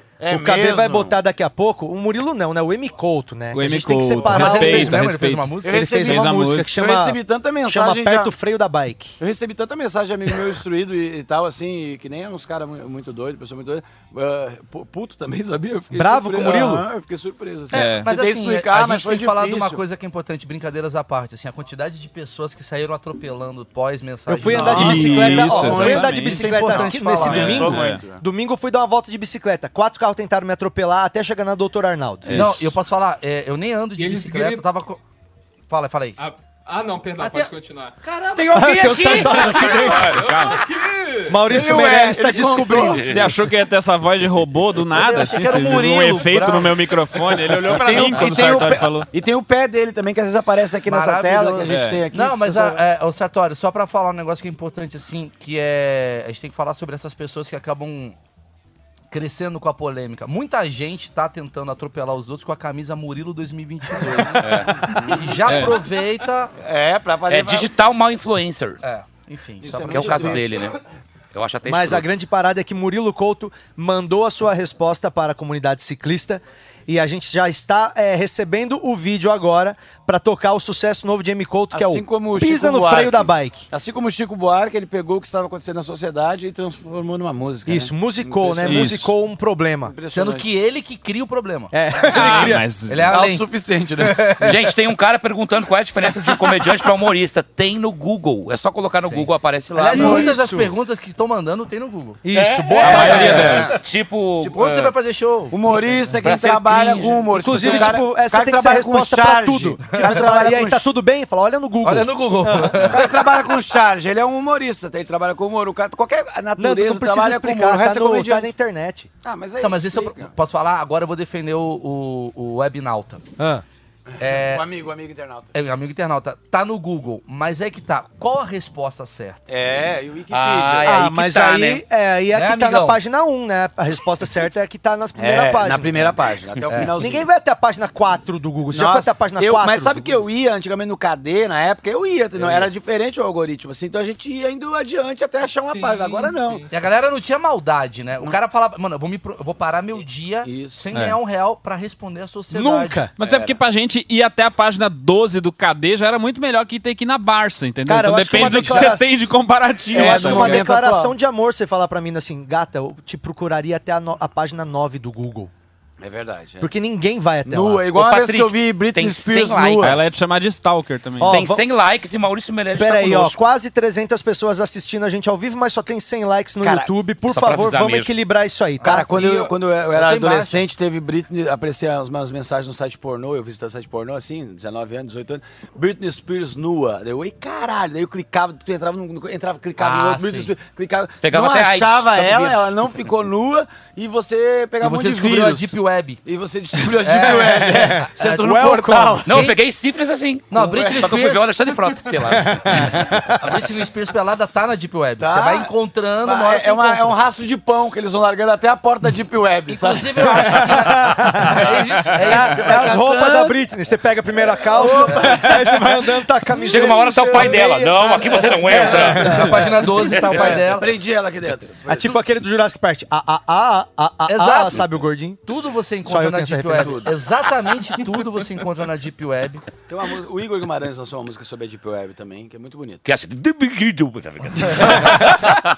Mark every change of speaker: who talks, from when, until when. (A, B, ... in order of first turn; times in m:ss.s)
0:00.2-0:01.2 A
0:00.3-0:05.1 B
0:03.5-0:06.7 C
0:04.2-0:05.8 D
0:05.6-0:08.3 A
0:05.7-0:09.2 B
0:09.2-0:19.8 A
0:15.9-0:16.9 B
0:17.7-0:18.1 C
0:18.0-0:27.7 D
0:24.3-0:32.4 B
0:24.5-0:28.2 A
0:24.6-0:26.6 C
0:27.2-0:28.0 C
0:32.3-0:32.7 E
0:32.3-0:35.0 D
0:34.0-0:34.7 F
0:35.7-0:36.2 D
0:36.2-0:37.9 F
0:37.2-0:38.8 D
0:38.4-0:40.6 C
0:38.5-0:40.2 B
0:39.4-0:41.4 F
0:41.3-0:43.2 B
0:41.5-0:43.2 A
0:43.0-0:49.1 C
0:44.9-0:46.8 D
0:47.6-0:52.8 A
0:50.9-0:58.2 D
0:51.6-0:52.0 C
0:59.1-1:06.5 D
1:04.0-1:05.3 A
1:04.4-1:05.0 E
1:05.5-1:05.8 C
1:06.6-1:07.7 A
1:07.3-1:08.8 E
1:08.8-1:10.5 D
1:09.6-1:10.7 A
1:09.8-1:10.8 E
1:11.3-1:12.0 E
1:11.6-1:23.7 B
1:21.7-1:29.1 A
1:27.7-1:30.0 B
1:28.6-1:29.1 C
1:29.9-1:30.5 A
1:30.1-1:31.7 D
1:31.7-1:32.6 B
1:32.1-1:33.1 C
1:32.9-1:33.5 D
1:33.1-1:34.6 A
1:34.0-1:34.7 D
1:34.4-1:40.2 E
1:39.0-1:42.2 D
1:39.9-1:40.7 B
1:42.2-1:43.8 B
1:42.4-1:44.9 E
1:42.8-1:43.7 C
1:42.8-1:43.8 A
1:43.0-1:43.3 D
1:44.4-1:45.6 D
1:45.5-1:50.9 A
1:46.2-1:47.9 E
1:47.3-1:52.8 B
1:50.0-1:50.3 D
1:51.8-1:53.1 D
1:52.8-1:58.5 A
1:56.6-1:59.1 B
1:59.2-2:00.3 A
1:59.6-2:03.2 D
2:03.4-2:03.6 B
2:04.2-2:05.5 A
2:04.2-2:04.7 D
2:05.5-2:09.4 D
2:09.5-2:11.0 A
2:10.3-2:11.8 E
2:10.8-2:16.2 B
2:12.3-2:13.0 D
2:15.2-2:17.3 A
2:17.0-2:20.0 B
2:18.7-2:26.6 A
2:22.4-2:22.7 D
2:25.6-2:26.7 F
2:26.7-2:33.0 D
2:30.4-2:30.8 A
2:32.5-2:33.1 B
2:33.2-2:40.7 C
2:33.2-2:33.6 A
2:37.9-2:39.1 B
2:38.4-2:38.9 A
2:39.9-2:41.1 A
2:39.9-2:45.5 B
2:46.0-2:46.7 A
2:46.6-2:47.9 B
2:47.5-2:50.1 A
2:47.9-2:50.0 E
2:49.8-2:51.4 C
2:51.2-2:51.6 B
2:51.2-2:53.4 E
2:52.8-2:59.1 B
2:56.6-2:56.9 A
2:57.3-2:58.1 E
2:58.8-3:00.6 D
2:58.8-3:19.4 A
3:09.8-3:10.5 D
3:11.2-3:12.8 E
3:14.8-3:16.2 D
3:17.0-3:18.1 D
3:17.4-3:19.3 B
3:19.2-3:23.0 E
3:19.3-3:19.6 D
3:20.5-3:21.5 D
3:22.3-3:23.4 B
3:23.4-3:27.1 D
3:25.2-3:25.7 A
3:26.2-3:30.8 A
3:29.7-3:33.0 D
3:30.4-3:31.6 B
3:31.6-3:33.6 A
3:32.2-3:39.5 B
3:34.6-3:35.9 A
3:36.7-3:40.6 E
3:36.7-3:37.6 A
3:38.6-3:39.7 A
3:39.0-3:40.9 D
3:40.3-3:42.1 A
3:41.9-3:45.4 B
3:44.3-3:44.9 D
3:45.4-3:49.6 D
3:46.0-3:47.1 B
3:46.8-3:47.1 A
3:49.9-3:53.0 A
3:53.0-3:55.6 E
3:55.2-3:55.5 C